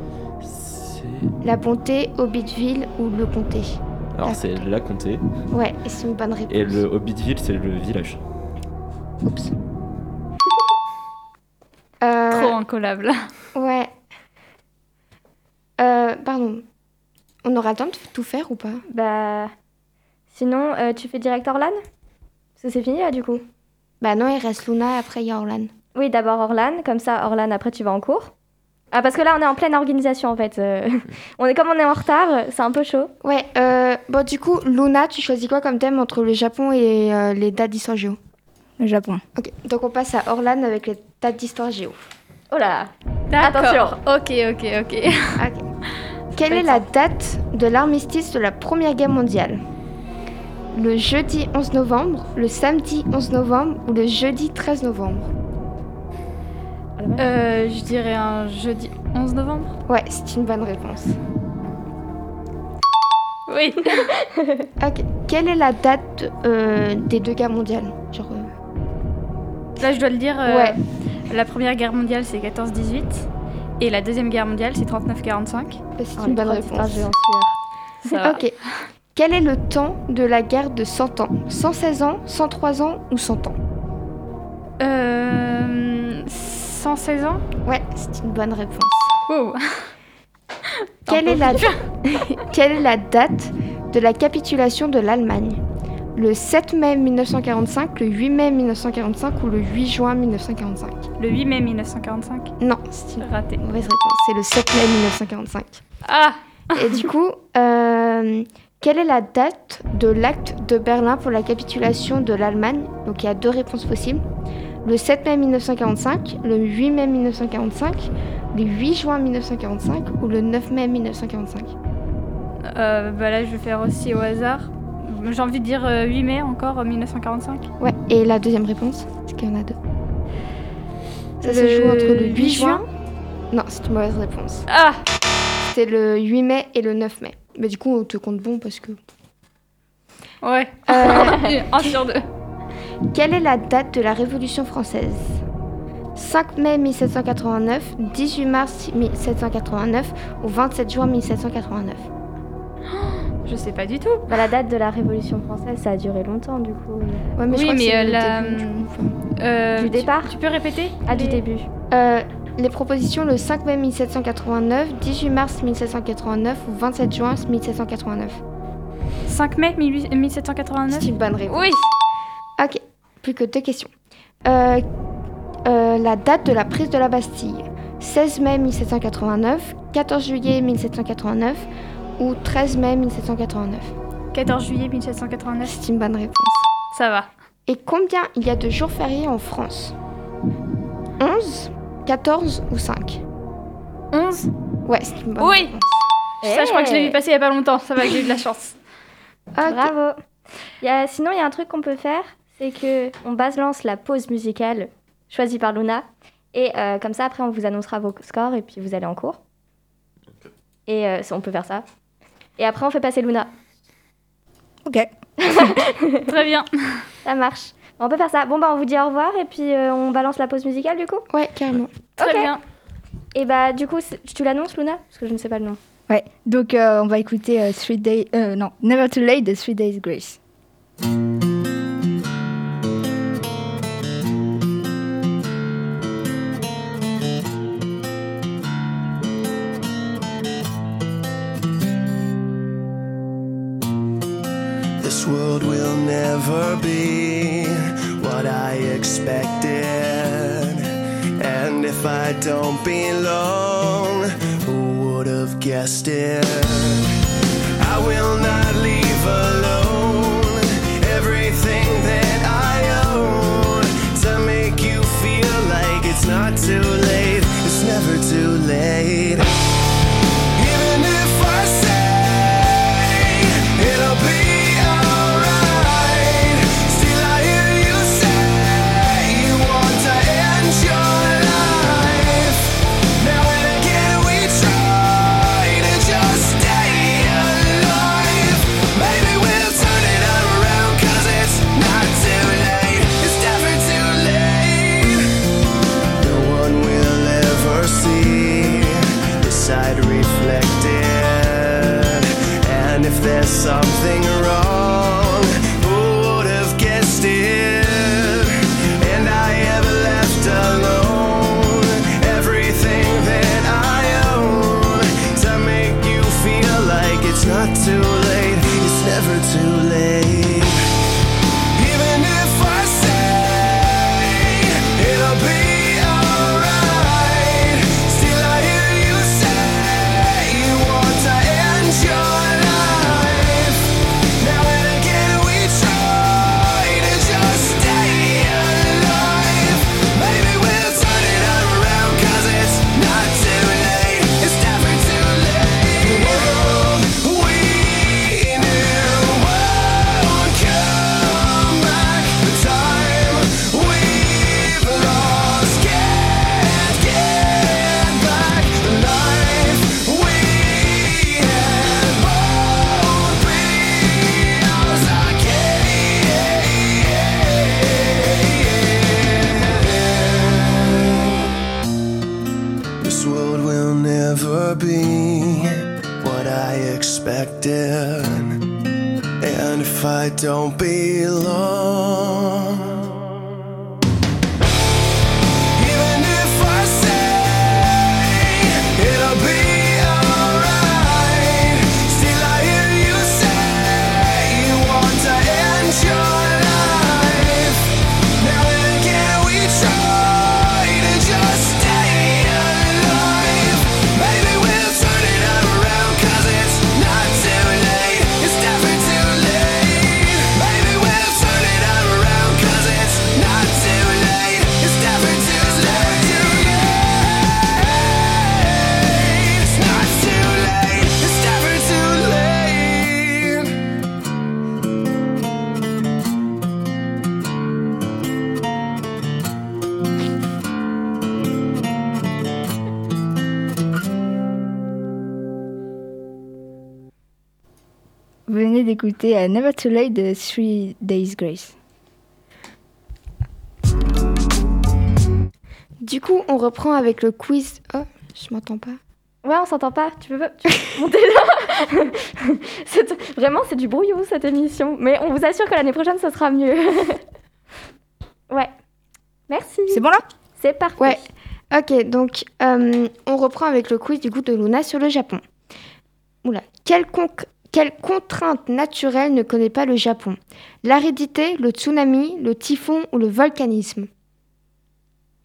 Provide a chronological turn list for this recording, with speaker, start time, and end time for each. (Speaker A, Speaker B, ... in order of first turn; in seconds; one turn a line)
Speaker A: 0.4-1.3
Speaker B: 1.4-4.7
Speaker A: 4.1-5.2
Speaker B: 5.5-6.8
Speaker A: 6.5-8.2
Speaker B: 9.2-9.5
Speaker B: 12.0-12.6
Speaker C: 12.3-13.3
Speaker B: 13.5-13.9
Speaker B: 15.8-16.6
Speaker B: 17.4-18.8
Speaker D: 18.9-19.5
Speaker D: 20.3-21.8
Speaker D: 22.6-23.4
Speaker B: 24.0-25.7
Speaker D: 25.9-28.3
Speaker D: 28.9-33.1
Speaker B: 33.2-38.2
Speaker E: 38.8-39.2
Speaker B: 39.4-42.0
Speaker D: 42.5-44.0
Speaker C: 43.3-45.4
Speaker B: 45.4-45.6
Speaker B: 46.3-49.6
Speaker C: 46.5-46.8
Speaker B: 50.7-55.3
Speaker D: 57.0-57.3
Speaker C: 57.2-59.8
Speaker B: 59.9-61.1
Speaker C: 63.5-64.1
Speaker D: 64.2-64.7
Speaker B: 64.8-68.5
Speaker C: 69.8-73.3
Speaker B: 70.4-70.8
Speaker C: 73.8-75.8
Speaker B: 76.0-77.1
Speaker D: 76.2-77.5
Speaker C: 78.0-78.4
Speaker B: 78.1-78.5
Speaker B: 79.1-83.5
Speaker C: 84.8-87.4
Speaker B: 87.7-89.1
Speaker C: 89.3-89.9
Speaker C: 91.0-91.8
Speaker B: 91.1-95.6
Speaker B: 96.2-101.0
Speaker C: 101.2-102.5
Speaker B: 102.6-105.8
Speaker C: 103.2-103.6
Speaker C: 106.0-107.0
Speaker B: 106.7-114.2
Speaker B: 114.8-121.7
Speaker C: 122.7-127.7
Speaker B: 127.8-129.8
Speaker C: 131.4-132.8
Speaker B: 131.4-132.9
Speaker B: 133.5-134.7
Speaker C: 134.7-135.0
Speaker B: 135.6-139.0
Speaker C: 140.4-142.2
Speaker B: 140.9-141.9
Speaker B: 143.1-145.4
Speaker B: 146.2-152.1
Speaker C: 152.9-154.3
Speaker D: 154.3-157.2
Speaker B: 157.3-159.1
Speaker C: 157.5-161.4
Speaker D: 159.8-160.3
Speaker D: 161.0-161.7
Speaker B: 161.9-168.4
Speaker C: 169.2-171.8
Speaker B: 170.9-171.8
Speaker B: 172.6-173.9
Speaker B: 174.4-174.8
Speaker B: 175.6-181.7
Speaker B: 182.2-183.9
Speaker C: 184.3-185.8
Speaker B: 185.6-186.7
Speaker C: 186.9-187.3
Speaker B: 187.7-189.9
Speaker B: 191.2-193.2
Speaker C: 194.1-194.5
Speaker B: 194.8-196.0
Speaker C: 195.4-195.7
Speaker D: 196.4-197.2
Speaker C: 196.4-198.8
Speaker B: 199.5-199.9
Speaker D: 199.6-200.2
Speaker D: 200.8-209.4
Speaker D: 210.9-211.8
Speaker D: 212.6-213.5
Speaker D: 215.4-216.3
Speaker C: 216.2-216.7
Speaker D: 217.2-221.2
Speaker B: 221.3-221.9
Speaker D: 222.2-222.5
Speaker C: 222.2-222.6
Speaker D: 223.3-225.8
Speaker E: 226.1-230.4
Speaker F: 245.0-257.0
Speaker F: 257.8-269.5
Speaker F: 270.5-295.2
Speaker F: 296.2-320.9
Speaker F: 321.7-370.9
Speaker F: 373.0-378.6
Speaker F: 379.4-383.1
Speaker F: 385.7-423.7
Speaker E: 438.5-441.7
Speaker B: 446.0-449.0
Speaker D: 449.4-457.2
Speaker D: 459.5-461.2
Speaker E: 459.9-460.2
Speaker B: 461.0-465.4
Speaker B: 466.4-474.1